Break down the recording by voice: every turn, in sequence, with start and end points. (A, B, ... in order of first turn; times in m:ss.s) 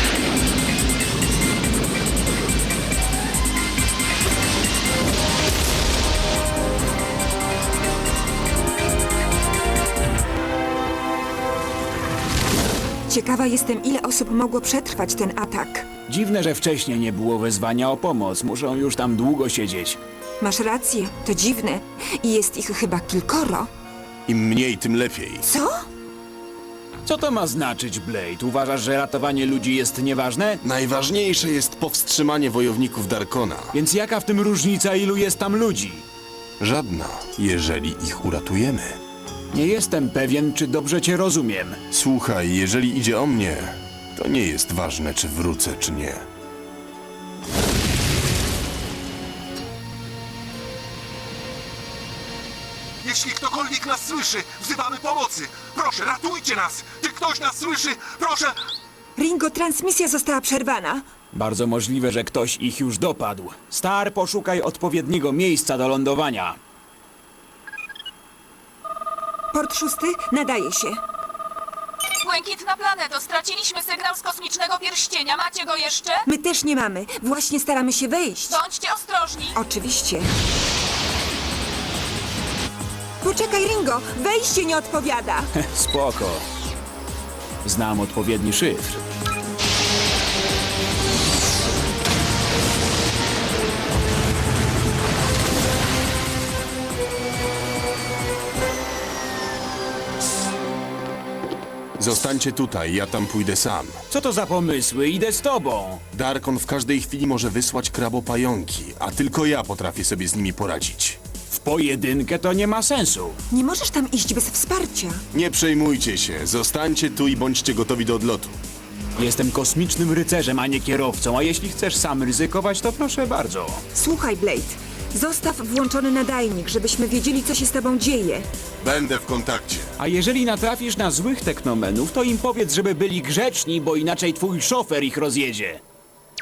0:13.1-0:15.8 A
0:16.1-0:20.0 B
0:20.4-0:23.7 A
0:24.3-0:25.4 C
0:25.4-0:25.7 A
0:27.0-0:30.6 B
0:30.6-0:33.7 C
0:33.7-0:36.0 B
0:36.6-0:39.0 C
0:39.5-0:41.8 B
0:41.9-0:46.2 C
0:53.0-0:58.5 D
0:59.2-1:01.0 A
1:01.3-1:06.6 B
1:09.5-1:11.0 A
1:12.2-1:16.2 E
1:16.3-1:18.6 A
1:18.5-1:19.6 E
1:19.6-1:20.3 A
1:23.2-1:25.5 A
1:25.6-1:26.4 B
1:27.6-1:29.0 B
1:42.0-1:44.0 C
1:44.1-1:46.0 B
1:46.1-1:51.2 C
1:51.5-1:53.4 B
1:53.5-1:55.2 A
1:55.3-1:58.6 C
1:59.2-2:03.8 B
2:03.9-2:08.5 A
2:08.8-2:09.9 C
2:10.0-2:15.8 B